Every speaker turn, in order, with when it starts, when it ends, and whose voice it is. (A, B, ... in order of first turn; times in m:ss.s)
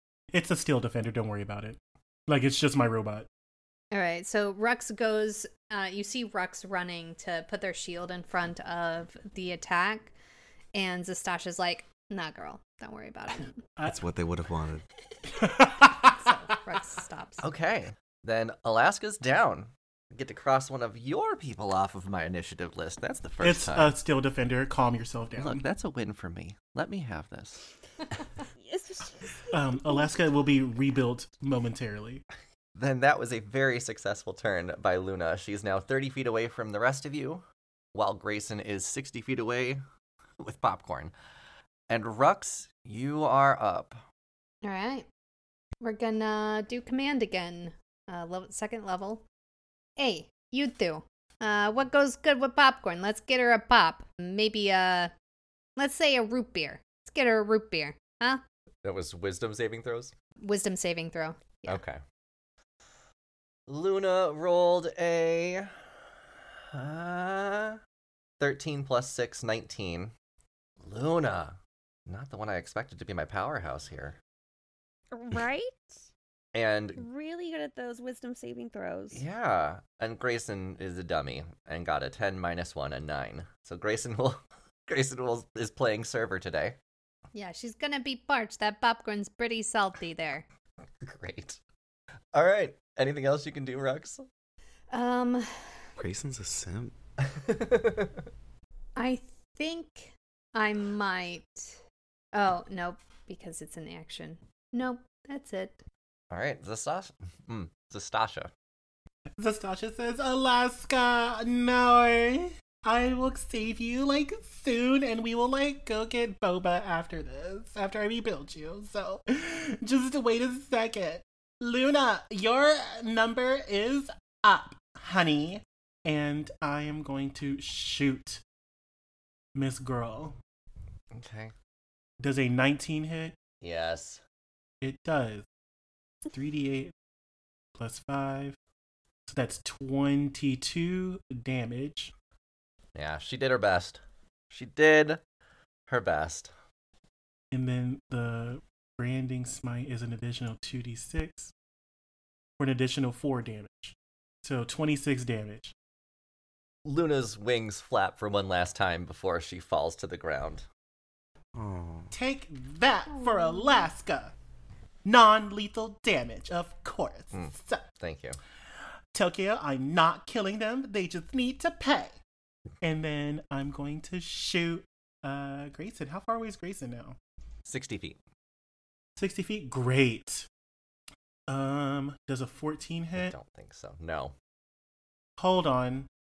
0:00.3-0:03.3 A
0:03.9-0:10.1 B
0:10.7-0:13.6 B
0:13.8-0:14.8 C
0:15.3-0:16.3 A
0:16.1-0:17.4 B
0:17.4-0:23.9 D
0:23.4-0:25.6 A
0:25.4-0:27.7 D
0:28.6-0:29.9 E
0:29.5-0:32.2 A
0:32.8-0:39.8 D
0:40.4-0:41.1 D
0:41.9-0:44.0 D
0:44.6-0:45.1 B
0:45.8-0:49.2 B
0:50.0-0:55.1 B
0:55.8-0:58.4 B
0:58.8-1:00.1 D
1:00.4-1:01.8 B
1:01.7-1:02.0 D
1:03.7-1:05.7 D
1:06.7-1:07.8 D
1:08.4-1:10.1 D
1:10.8-1:14.2 D
1:15.1-1:16.0 E
1:16.5-1:17.0 D
1:17.0-1:19.2 E
1:19.1-1:26.8 D
1:27.3-1:30.4 B
1:31.0-1:31.6 D
1:32.3-1:34.2 D
1:34.9-1:35.5 B
1:36.0-1:36.9 C
1:37.3-1:38.2 D
1:39.0-1:41.8 B
1:42.3-1:45.8 B
1:46.3-1:48.5 D
1:49.4-2:08.4 A
2:09.5-2:10.4 A
2:11.1-2:11.5 D
2:12.2-2:13.4 A
2:13.6-2:14.2 D
2:14.8-2:15.4 A
2:16.3-2:16.9 A
2:17.7-2:18.6 A
2:19.3-2:22.1 A
2:22.9-2:25.2 D
2:25.9-2:26.5 D
2:27.5-2:31.5 A
2:32.6-2:35.7 A
2:36.8-2:40.6 D
2:41.5-2:42.1 C
2:42.1-2:44.3 A
2:43.1-2:43.9 B
2:45.0-2:47.8 A
2:47.3-2:48.4 D
2:49.1-2:52.2 A
2:52.8-2:57.2 A
2:57.6-2:58.2 D
2:59.2-3:00.5 A
3:01.5-3:03.3 A
3:03.2-3:04.3 D
3:05.4-3:06.1 A